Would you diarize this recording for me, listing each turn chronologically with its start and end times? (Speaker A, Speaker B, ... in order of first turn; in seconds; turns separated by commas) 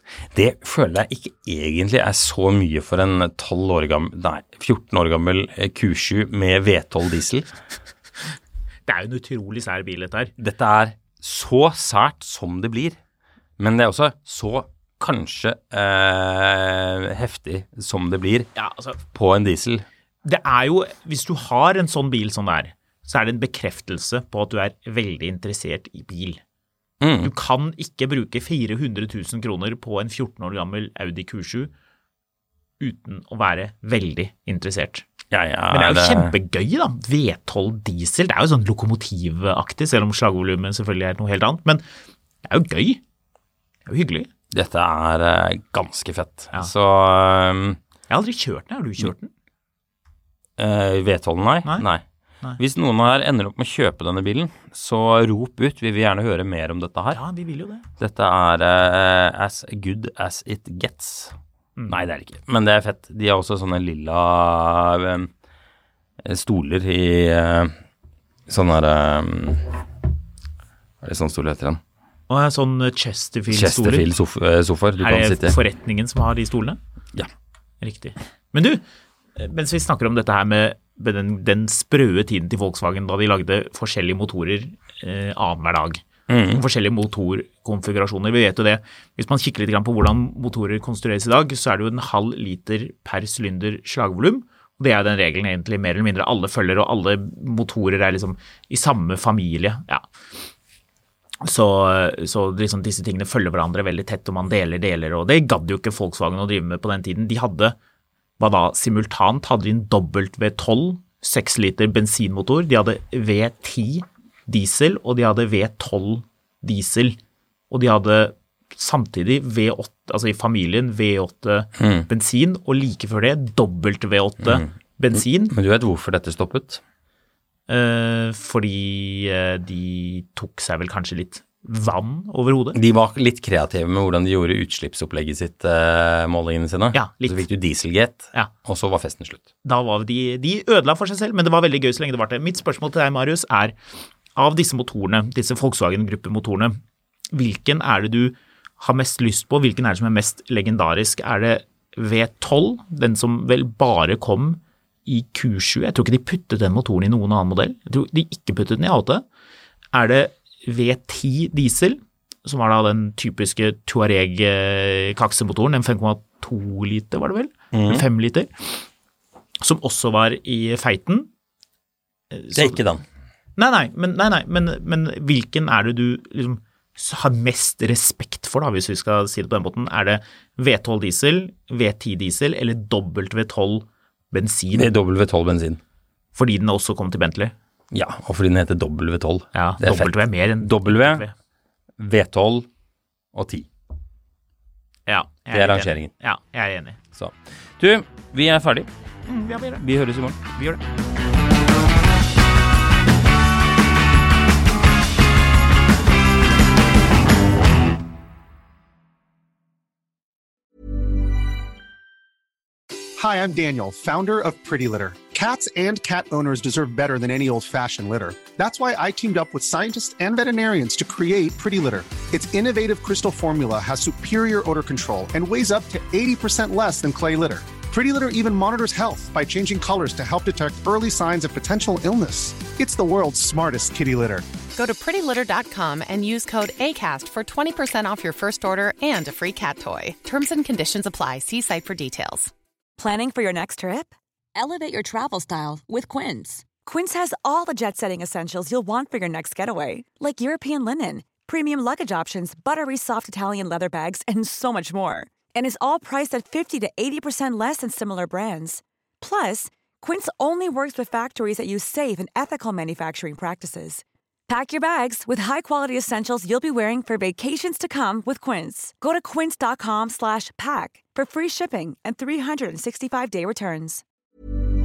Speaker A: 0.3-7.5, Speaker B: 8.9-10.3, Speaker A: 10.4-13.0, Speaker A: 13.6-18.5, Speaker B: 18.5-19.0, Speaker A: 19.1-19.8, Speaker B: 20.2-26.4, Speaker A: 27.0-27.3, Speaker B: 27.2-31.7, Speaker B: 32.8-35.0, Speaker A: 35.3-36.3, Speaker B: 35.7-41.8, Speaker B: 42.4-43.0, Speaker B: 43.9-44.3, Speaker A: 44.5-47.8, Speaker B: 48.1-49.3, Speaker A: 50.6-52.0, Speaker A: 52.6-57.2, Speaker B: 57.1-57.9, Speaker A: 58.0-61.4, Speaker B: 61.8-62.0, Speaker A: 61.9-65.3, Speaker A: 66.2-67.7, Speaker A: 68.5-69.8, Speaker A: 71.0-71.8, Speaker B: 72.3-74.0, Speaker A: 73.5-75.6, Speaker B: 75.0-76.8, Speaker B: 77.8-78.8, Speaker B: 79.4-100.0, Speaker A: 86.3-86.6, Speaker B: 101.4-107.8, Speaker B: 108.4-117.2, Speaker B: 117.7-125.5, Speaker A: 121.8-122.1, Speaker A: 124.4-126.8, Speaker B: 127.7-132.8, Speaker A: 132.7-139.4, Speaker B: 136.9-137.4, Speaker B: 139.6-143.8, Speaker B: 144.4-146.8, Speaker B: 147.3-159.2, Speaker B: 159.9-168.9, Speaker A: 167.7-168.0, Speaker B: 169.6-171.3, Speaker B: 172.3-172.8, Speaker A: 172.5-173.0, Speaker B: 173.6-184.9, Speaker A: 184.7-185.8, Speaker B: 186.3-187.5, Speaker A: 187.9-191.2, Speaker B: 189.5-191.3, Speaker A: 192.0-192.7, Speaker A: 193.3-193.7, Speaker B: 195.1-197.0, Speaker A: 195.5-196.1, Speaker A: 197.1-198.9, Speaker B: 199.3-199.8, Speaker A: 199.8-200.5, Speaker C: 213.2-234.5, Speaker D: 234.7-242.5, Speaker E: 243.0-244.1, Speaker F: 244.6-246.5, Speaker E: 245.3-274.0